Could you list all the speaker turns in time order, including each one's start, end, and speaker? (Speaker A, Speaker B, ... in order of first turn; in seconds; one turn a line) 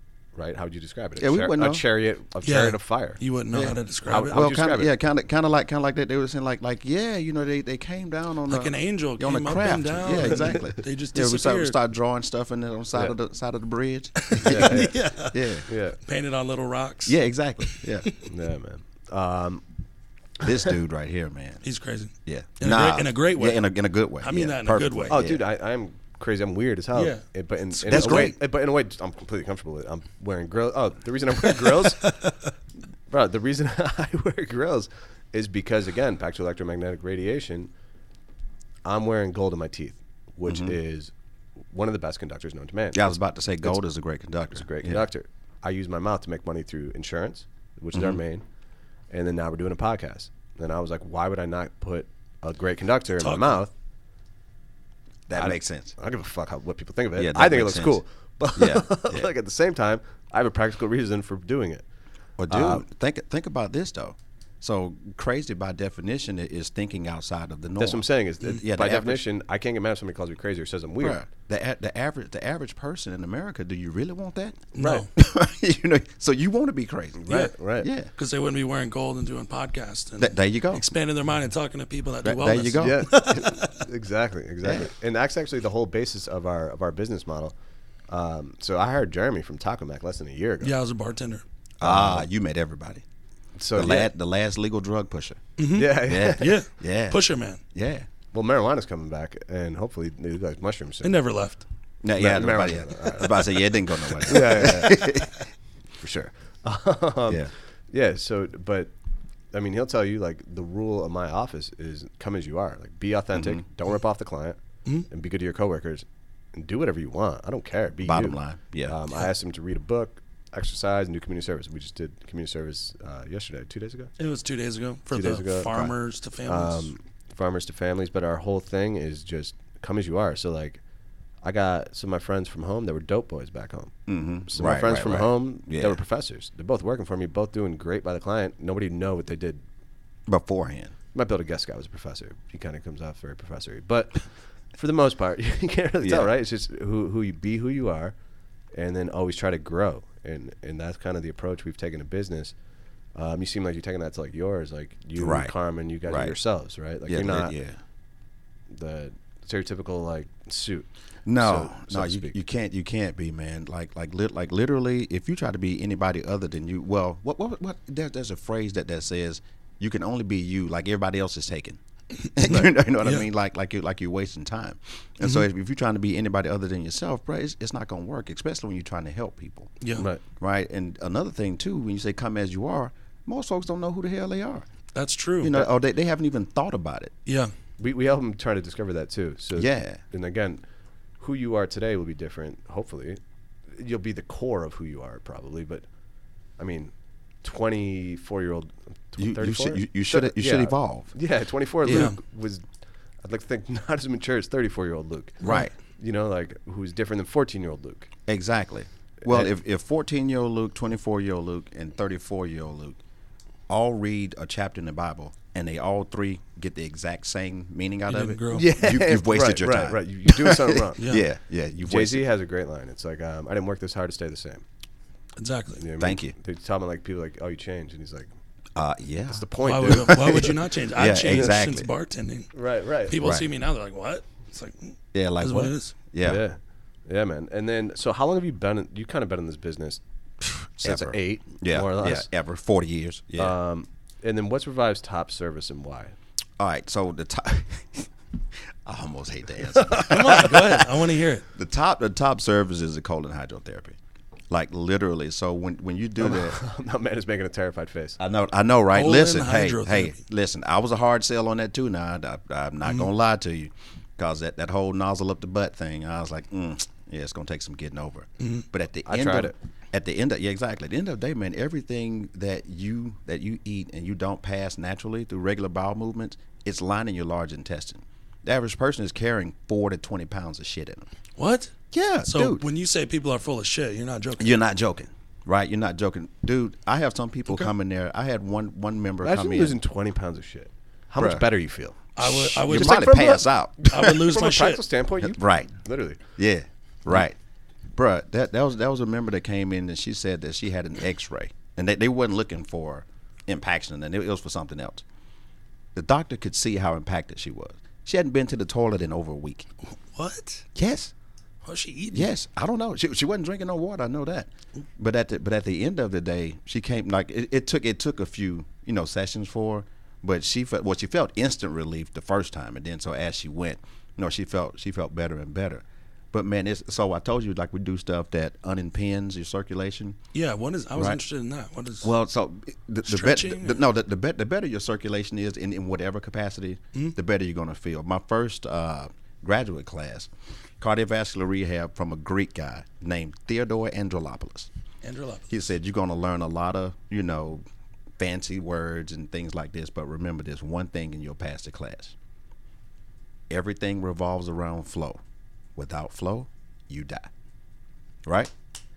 Speaker A: 0.3-3.2
Speaker B: 1.2-1.8
Speaker C: 2.4-4.4
Speaker B: 3.5-15.7
Speaker A: 4.1-4.9
Speaker C: 8.5-11.8
Speaker A: 10.3-10.7
Speaker C: 14.3-18.1
Speaker A: 14.4-15.1
Speaker A: 15.7-16.0
Speaker B: 17.1-18.1
Speaker A: 18.2-19.6
Speaker B: 20.4-21.6
Speaker C: 21.6-23.6
Speaker B: 22.3-25.4
Speaker C: 24.2-25.2
Speaker A: 25.1-32.1
Speaker C: 26.9-27.2
Speaker C: 27.8-28.3
Speaker B: 27.9-28.4
Speaker C: 32.0-32.3
Speaker A: 33.1-37.7
Speaker A: 38.9-41.1
Speaker B: 40.5-40.8
Speaker A: 41.7-43.8
Speaker B: 42.9-45.0
Speaker A: 44.5-48.5
Speaker B: 47.9-48.2
Speaker A: 49.1-53.7
Speaker C: 53.2-53.6
Speaker B: 55.3-55.9
Speaker A: 55.4-61.9
Speaker B: 57.2-58.0
Speaker B: 58.6-59.3
Speaker B: 62.4-69.2
Speaker A: 62.5-62.9
Speaker A: 67.8-71.2
Speaker B: 71.0-78.1
Speaker C: 74.8-75.1
Speaker A: 74.8-75.1
Speaker A: 77.2-77.9
Speaker C: 78.2-83.8
Speaker B: 80.2-80.8
Speaker B: 82.2-83.1
Speaker A: 82.8-87.5
Speaker B: 84.6-84.9
Speaker A: 88.1-90.8
Speaker C: 90.6-91.4
Speaker B: 91.8-93.0
Speaker A: 91.8-92.2
Speaker A: 93.6-94.1
Speaker B: 93.8-98.1
Speaker C: 95.6-97.6
Speaker A: 95.7-96.5
Speaker A: 98.3-101.2
Speaker C: 101.0-101.7
Speaker B: 102.0-105.4
Speaker A: 102.2-105.3
Speaker A: 106.0-108.9
Speaker A: 109.5-124.1
Speaker B: 113.3-113.6
Speaker B: 118.0-119.0
Speaker C: 124.2-126.9
Speaker A: 125.1-125.9
Speaker A: 126.5-130.8
Speaker A: 131.4-133.9
Speaker B: 134.1-136.0
Speaker A: 134.5-139.6
Speaker B: 140.3-140.9
Speaker A: 141.1-148.2
Speaker B: 146.0-146.3
Speaker A: 148.7-152.6
Speaker A: 153.1-157.5
Speaker B: 155.2-155.5
Speaker B: 156.1-156.4
Speaker B: 157.1-157.8
Speaker A: 158.7-162.4
Speaker B: 161.3-171.8
Speaker B: 172.3-179.8
Speaker C: 179.8-180.1
Speaker A: 180.0-180.2
Speaker B: 180.4-184.7
Speaker C: 184.9-185.7
Speaker B: 185.4-187.1
Speaker C: 187.3-187.5
Speaker A: 187.8-190.6
Speaker B: 189.6-190.0
Speaker A: 191.2-193.2
Speaker A: 193.7-195.9
Speaker A: 196.6-202.7
Speaker B: 199.2-201.1
Speaker C: 201.9-202.2
Speaker A: 203.2-208.1
Speaker C: 205.4-205.7
Speaker B: 205.4-205.7
Speaker B: 208.3-213.0
Speaker A: 209.2-209.5
Speaker B: 213.7-222.3
Speaker C: 218.1-218.7
Speaker A: 218.5-221.1
Speaker A: 221.8-224.7
Speaker C: 225.4-225.8
Speaker A: 225.8-228.3
Speaker B: 226.0-226.3
Speaker B: 228.8-231.9
Speaker A: 229.3-230.6
Speaker C: 229.6-232.5
Speaker A: 232.5-233.2
Speaker C: 233.1-235.9
Speaker B: 233.2-233.5
Speaker B: 235.1-236.4
Speaker A: 236.2-240.0
Speaker A: 240.8-242.3
Speaker B: 240.8-243.6
Speaker A: 243.4-246.2
Speaker B: 246.6-248.1
Speaker B: 248.8-254.0
Speaker A: 249.8-250.1
Speaker C: 250.0-251.4
Speaker B: 254.5-256.6
Speaker A: 256.2-258.2
Speaker B: 258.2-281.1
Speaker C: 258.9-260.1
Speaker C: 268.4-268.6
Speaker A: 269.1-269.6
Speaker C: 281.4-281.7
Speaker B: 281.9-282.7
Speaker C: 282.3-284.5
Speaker B: 284.4-289.8
Speaker A: 289.2-292.0
Speaker B: 291.2-291.4
Speaker C: 292.2-294.8
Speaker B: 292.2-294.3
Speaker A: 294.0-296.2
Speaker B: 295.2-295.7
Speaker B: 296.4-297.4
Speaker B: 297.9-305.0
Speaker B: 305.9-309.7
Speaker C: 310.1-310.6
Speaker B: 310.8-311.1
Speaker C: 311.6-312.3
Speaker B: 312.1-330.2
Speaker C: 330.3-332.1
Speaker B: 330.9-331.2
Speaker B: 332.0-344.7
Speaker C: 333.1-333.8
Speaker C: 345.0-345.5
Speaker B: 345.5-347.6
Speaker B: 348.2-352.2
Speaker B: 353.5-355.2
Speaker B: 355.8-357.3
Speaker B: 358.2-358.5